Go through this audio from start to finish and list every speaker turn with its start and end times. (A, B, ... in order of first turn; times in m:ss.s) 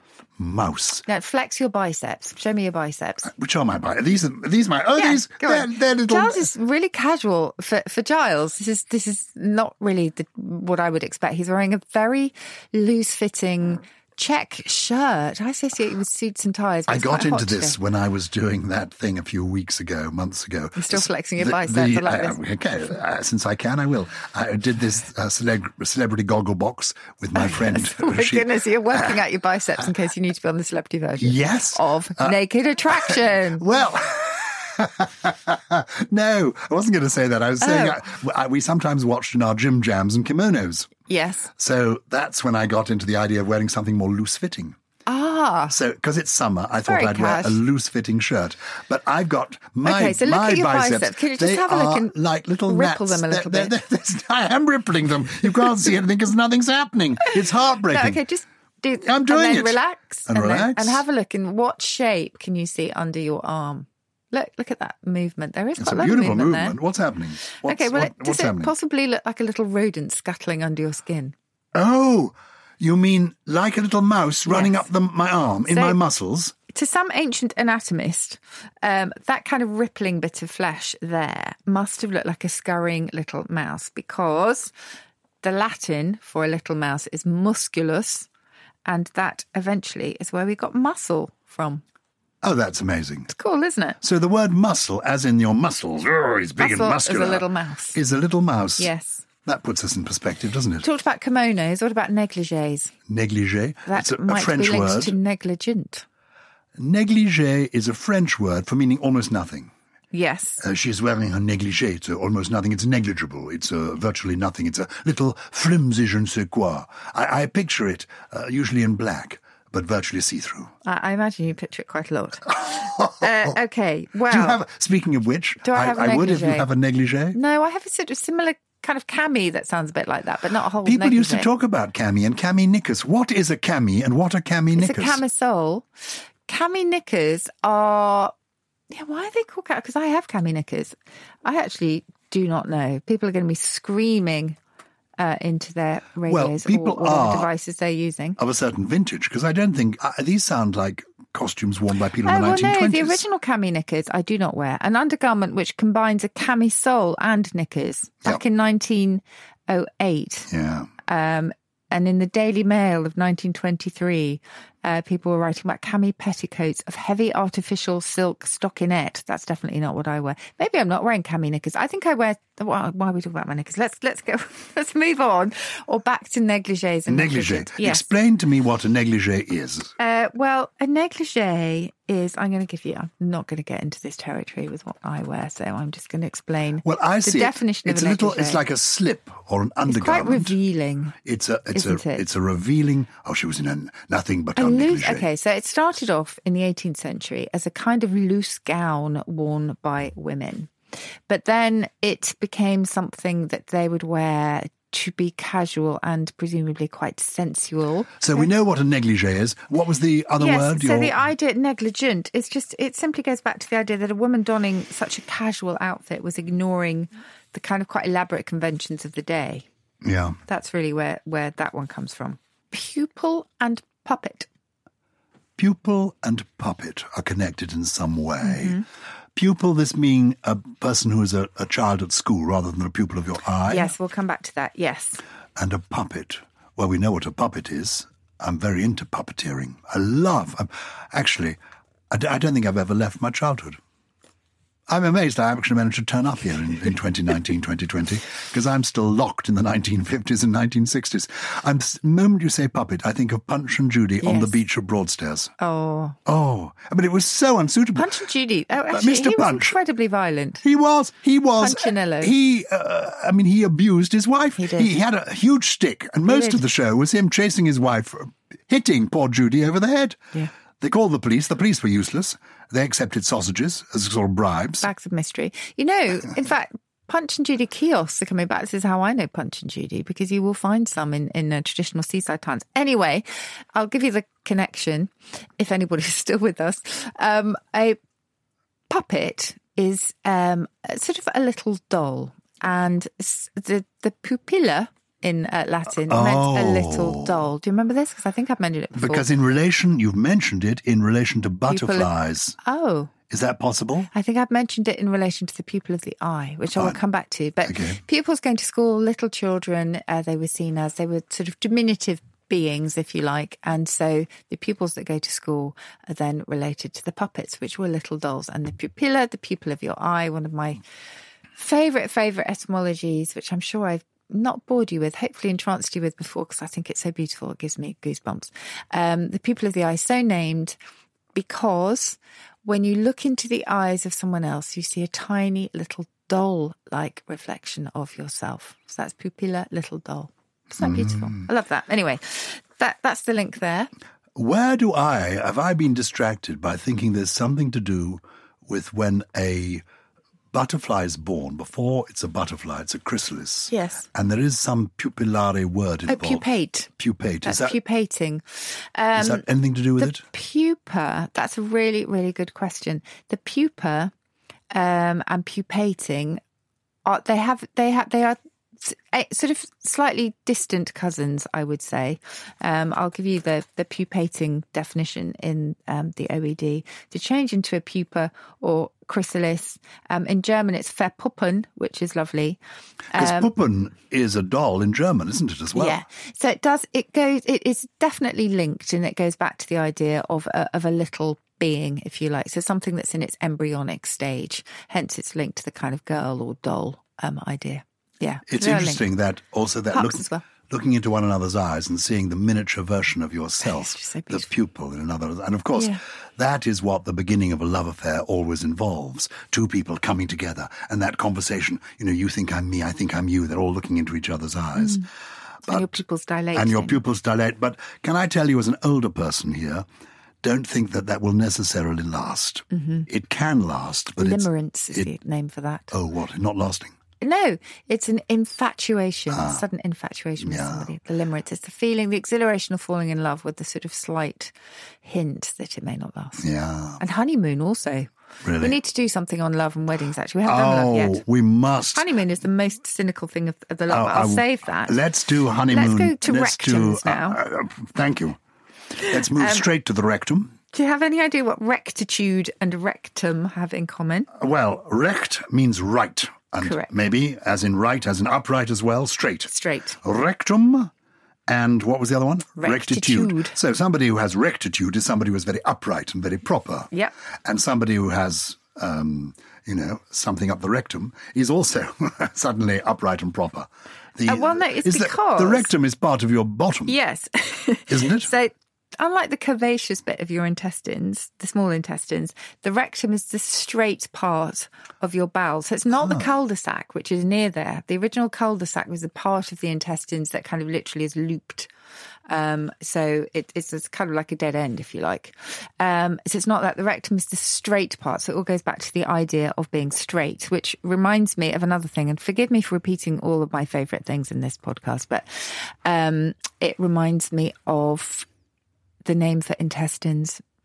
0:00.4-0:01.0 A
0:01.1-0:03.3 B
0:03.2-0:06.5 A
0:05.0-0:17.8 B
0:16.9-0:29.2 A
0:20.8-0:22.4 B
0:27.4-0:33.7 B
0:31.2-0:32.4 A
0:32.9-0:40.9 A
0:37.6-0:38.0 B
0:41.1-0:41.5 B
0:41.6-0:44.8 A
0:45.1-0:45.8 B
0:45.7-0:58.2 A
0:46.8-0:47.6 B
0:49.8-0:52.2 B
0:52.7-0:53.8 B
0:57.9-1:06.8 B
0:59.0-1:01.0 A
1:05.8-1:08.7 A
1:07.6-1:11.3 B
1:11.7-1:16.6 A
1:14.5-1:14.9 B
1:15.7-1:16.0 B
1:16.7-1:24.7 B
1:25.4-1:28.3 B
1:28.9-1:31.8 B
1:32.4-1:33.3 A
1:33.3-1:34.0 B
1:34.0-1:38.9 A
1:36.6-1:38.0 B
1:38.8-1:39.2 B
1:39.4-1:40.9 A
1:40.8-1:42.9 B
1:43.1-1:45.2 A
1:43.9-1:46.0 B
1:46.8-1:49.7 A
1:50.1-1:50.6 B
1:50.6-2:00.7 A
2:00.8-2:04.6 B
2:02.6-2:03.5 A
2:04.3-2:07.4 A
2:05.6-2:06.7 B
2:07.3-2:11.5 B
2:10.8-2:15.2 A
2:14.8-2:15.9 B
2:16.5-2:18.3 B
2:18.9-2:20.9 B
2:21.4-2:24.6 B
2:25.2-2:28.4 B
2:26.3-2:27.5 A
2:28.4-2:33.2 A
2:32.2-2:40.5 B
2:40.5-2:40.9 A
2:41.1-2:58.0 B
2:57.1-2:59.9 A
3:00.0-3:08.6 B
3:06.8-3:10.6 A
3:09.9-3:11.2 B
3:11.2-3:15.3 A
3:11.7-3:12.2 B
3:14.6-3:20.7 B
3:21.3-3:28.5 B
3:28.2-3:31.2 A
3:30.4-3:39.7 B
3:40.0-3:40.4 A
3:40.5-3:44.5 B
3:45.6-3:48.8 A
3:48.4-3:48.8 B
3:49.4-3:53.9 A
3:53.7-3:55.2 B
3:55.6-4:01.6 A
4:02.1-4:03.8 A
4:04.9-4:15.5 A
4:14.2-4:14.6 B
4:15.6-4:16.2 B
4:16.2-4:18.2 A
4:18.0-4:20.6 B
4:18.9-4:19.8 A
4:20.6-4:30.2 A
4:21.6-4:22.3 B
4:24.6-4:24.9 B
4:26.2-4:26.6 B
4:30.8-4:34.9 A
4:34.8-4:48.0 B
4:48.9-4:59.3 B
4:56.0-4:57.5 A
4:58.9-5:02.6 A
5:01.7-5:03.1 B
5:03.3-5:04.1 A
5:04.1-5:20.8 B
5:07.6-5:08.0 A
5:21.6-5:30.8 B
5:31.4-5:43.9 B
5:40.8-5:41.5 A
5:44.4-5:49.8 A
5:50.5-5:56.5 A
5:53.7-5:54.1 B
5:56.1-5:56.9 B
5:57.0-5:57.8 A
5:57.4-5:59.4 B
5:59.1-6:00.2 A
6:00.0-6:04.1 B
6:04.7-6:06.4 B
6:07.1-6:22.6 B
6:23.1-6:23.5 B
6:23.1-6:26.0 A
6:25.7-6:39.0 B
6:38.5-6:55.1 A
6:39.9-6:40.4 B
6:43.6-6:44.5 B
6:54.8-6:55.0 B
6:55.7-6:56.0 A
6:55.7-6:57.0 B
6:56.5-6:59.9 A
7:00.4-7:05.1 A
7:02.7-7:03.1 B
7:04.2-7:05.9 B
7:05.9-7:07.0 A
7:07.2-7:14.5 B
7:09.3-7:09.6 A
7:10.4-7:10.9 A
7:15.0-7:16.5 B
7:16.4-7:17.0 A
7:17.0-7:21.2 B
7:18.4-7:18.8 A
7:20.4-7:22.1 A
7:21.9-7:25.0 B
7:23.9-7:28.4 A
7:25.7-7:27.4 B
7:29.0-7:30.6 A
7:29.0-7:29.7 B
7:30.7-7:34.3 B
7:34.3-7:40.9 A
7:36.6-7:36.9 B
7:39.5-7:40.0 B
7:41.5-7:46.9 A
7:42.6-7:43.6 B
7:47.4-7:57.0 A
7:54.3-7:55.7 B
7:56.9-8:11.7 B
7:57.9-7:58.3 A
8:06.0-8:06.3 A
8:12.3-8:28.3 B
8:29.0-8:30.4 B